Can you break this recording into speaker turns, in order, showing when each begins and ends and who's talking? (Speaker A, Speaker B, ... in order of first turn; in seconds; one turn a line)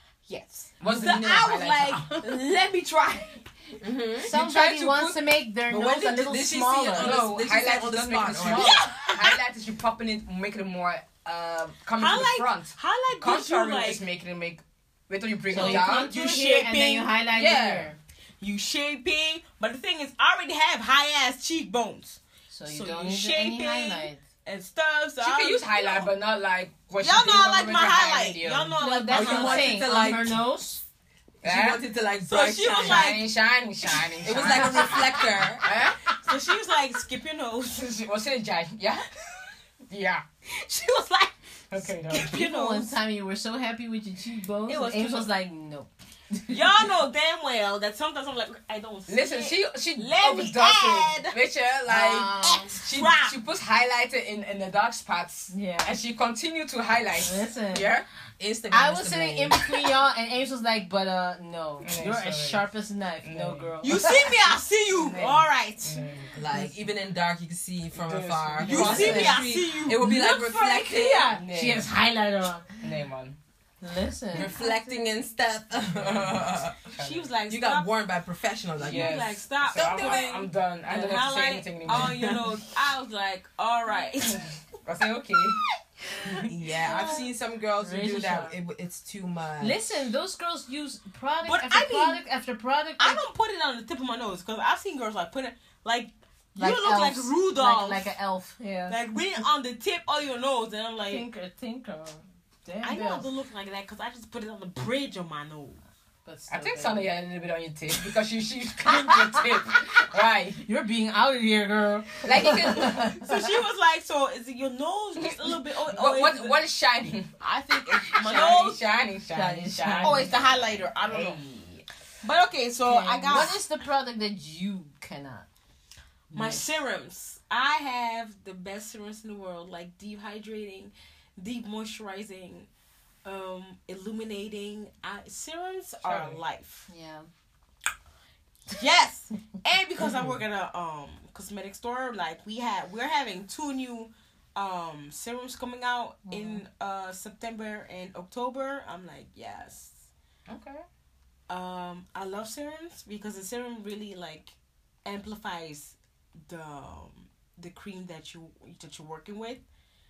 Speaker A: 0.3-3.5
Speaker B: 0.8-2.2
Speaker C: 3.8-4.3
Speaker B: 4.2-5.2
Speaker D: 4.2-7.2
Speaker C: 5.7-8.9
Speaker B: 7.0-16.1
Speaker A: 8.4-9.4
Speaker A: 12.0-14.0
Speaker D: 15.5-18.0
Speaker A: 15.5-17.1
Speaker B: 17.3-17.9
Speaker A: 18.4-26.1
Speaker D: 22.5-24.2
Speaker B: 25.2-28.8
Speaker A: 27.0-29.9
Speaker D: 28.8-30.8
Speaker C: 29.1-30.4
Speaker C: 31.4-33.1
Speaker B: 31.4-31.8
Speaker A: 32.2-33.3
Speaker B: 32.8-36.0
Speaker A: 34.0-34.2
Speaker C: 34.2-35.7
Speaker D: 34.6-35.0
Speaker A: 36.2-37.9
Speaker B: 37.8-39.2
Speaker B: 39.9-40.2
Speaker A: 40.5-43.0
Speaker B: 41.7-42.3
Speaker D: 42.3-45.9
Speaker A: 44.7-45.3
Speaker A: 46.5-51.4
Speaker B: 49.1-58.1
Speaker D: 51.9-52.8
Speaker A: 52.5-53.4
Speaker D: 55.5-56.0
Speaker D: 57.2-57.9
Speaker C: 58.4-59.8
Speaker D: 58.7-64.5
Speaker B: 61.8-62.6
Speaker B: 63.2-64.0
Speaker A: 63.8-66.0
Speaker B: 64.9-66.7
Speaker C: 66.3-71.3
Speaker B: 67.9-69.4
Speaker A: 68.6-70.0
Speaker D: 68.7-72.7
Speaker B: 71.3-71.9
Speaker B: 72.8-73.4
Speaker D: 73.8-74.7
Speaker C: 74.3-76.9
Speaker B: 76.0-77.3
Speaker A: 76.9-77.9
Speaker C: 77.5-80.5
Speaker B: 78.8-82.5
Speaker A: 78.8-80.3
Speaker A: 80.9-84.5
Speaker C: 81.9-82.4
Speaker B: 84.3-85.6
Speaker B: 86.2-86.5
Speaker D: 86.3-88.5
Speaker C: 86.5-89.8
Speaker D: 89.6-93.2
Speaker A: 91.4-92.2
Speaker A: 93.0-98.1
Speaker D: 96.6-99.4
Speaker A: 98.9-101.2
Speaker D: 101.1-103.3
Speaker A: 102.8-105.8
Speaker D: 106.2-107.1
Speaker B: 106.5-110.6
Speaker D: 108.9-109.5
Speaker D: 110.6-113.5
Speaker B: 112.2-113.1
Speaker A: 112.8-116.6
Speaker B: 115.2-121.9
Speaker A: 117.4-118.8
Speaker D: 118.2-118.7
Speaker D: 119.3-120.7
Speaker A: 120.0-121.4
Speaker A: 122.2-123.6
Speaker D: 122.8-125.5
Speaker D: 126.3-126.7
Speaker A: 126.3-132.7
Speaker A: 133.2-136.9
Speaker B: 136.0-136.4
Speaker D: 136.9-137.3
Speaker A: 138.7-150.1
Speaker D: 146.3-146.6
Speaker B: 150.5-150.8
Speaker A: 151.5-159.6